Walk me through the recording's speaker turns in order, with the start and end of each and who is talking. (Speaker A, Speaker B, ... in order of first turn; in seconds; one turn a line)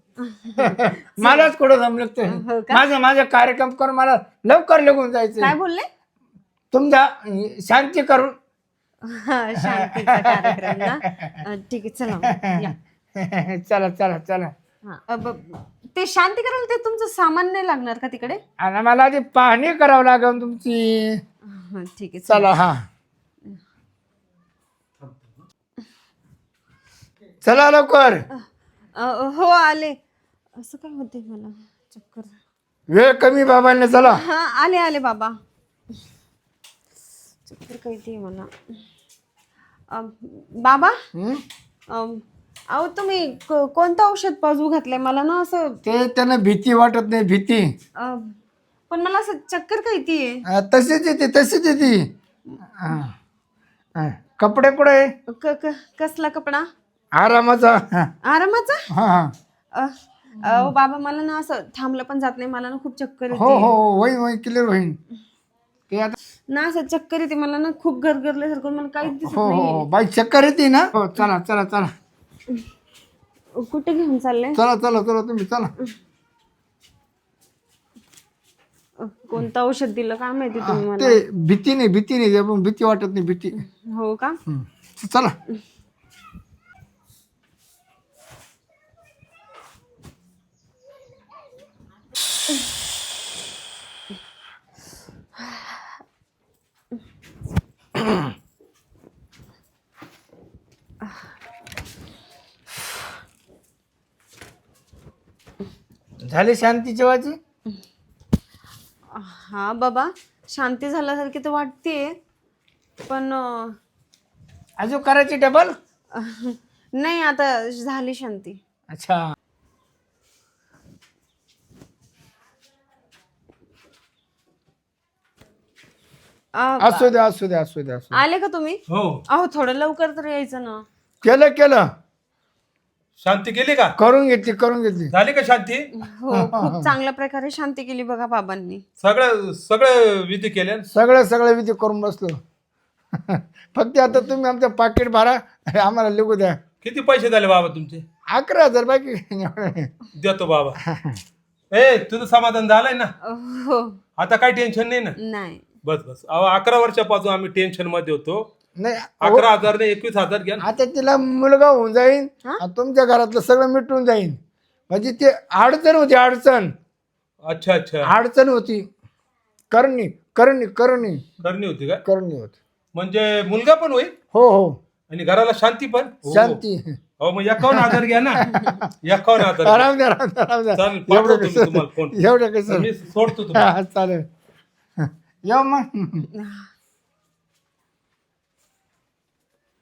Speaker A: 0.2-1.5
Speaker B: 0.6-5.5
Speaker A: 2.3-2.8
Speaker A: 5.4-5.8
Speaker B: 6.7-8.3
Speaker A: 9.0-12.7
Speaker B: 9.6-11.4
Speaker B: 12.2-14.5
Speaker A: 14.8-18.4
Speaker B: 18.6-21.2
Speaker A: 21.5-22.5
Speaker B: 22.3-22.8
Speaker B: 27.4-28.2
Speaker A: 28.9-30.0
Speaker A: 30.6-32.3
Speaker B: 32.9-34.2
Speaker A: 34.0-35.3
Speaker A: 37.5-38.5
Speaker A: 39.9-41.0
Speaker B: 41.1-41.4
Speaker A: 41.9-45.8
Speaker B: 45.8-47.7
Speaker A: 48.0-48.4
Speaker A: 48.9-50.4
Speaker B: 50.5-52.1
Speaker B: 52.7-53.1
Speaker B: 54.0-55.1
Speaker A: 55.3-56.7
Speaker B: 57.2-58.1
Speaker A: 58.2-58.9
Speaker B: 58.9-59.3
Speaker A: 59.7-63.7
Speaker B: 60.4-60.7
Speaker B: 63.3-65.0
Speaker B: 65.9-66.2
Speaker A: 66.5-69.8
Speaker B: 69.1-71.9
Speaker A: 73.5-74.6
Speaker B: 74.5-75.7
Speaker A: 79.0-81.2
Speaker B: 80.6-83.6
Speaker A: 83.5-84.4
Speaker B: 84.5-85.3
Speaker B: 106.2-107.4
Speaker A: 109.1-112.1
Speaker A: 113.0-113.8
Speaker B: 114.8-115.7
Speaker A: 116.1-118.6
Speaker B: 118.9-119.2
Speaker A: 126.5-127.1
Speaker B: 126.8-128.2
Speaker A: 128.1-130.8
Speaker C: 128.9-129.2
Speaker B: 131.2-131.8
Speaker C: 133.2-133.9
Speaker B: 134.0-135.1
Speaker C: 135.1-135.8
Speaker A: 135.9-138.8
Speaker B: 136.3-136.9
Speaker C: 139.0-140.9
Speaker B: 140.9-142.4
Speaker B: 143.2-146.6
Speaker C: 146.8-148.0
Speaker B: 148.3-149.9
Speaker C: 150.2-150.8
Speaker B: 150.8-151.2
Speaker C: 151.7-153.1
Speaker A: 153.2-154.0
Speaker C: 154.2-155.1
Speaker A: 155.2-155.6
Speaker C: 155.8-158.5
Speaker B: 158.8-159.5
Speaker C: 159.2-160.6
Speaker B: 160.6-164.4
Speaker B: 164.9-166.7
Speaker C: 167.4-168.1
Speaker B: 168.0-168.9
Speaker B: 169.7-171.2
Speaker C: 171.4-172.0
Speaker B: 172.0-172.5
Speaker C: 172.9-174.1
Speaker B: 174.3-174.8
Speaker C: 175.1-176.6
Speaker B: 176.3-177.0
Speaker C: 177.2-179.9
Speaker B: 177.6-178.9
Speaker A: 178.5-178.8
Speaker B: 179.4-182.9
Speaker C: 180.8-183.7
Speaker B: 183.5-184.2
Speaker B: 185.0-186.3
Speaker A: 186.3-186.7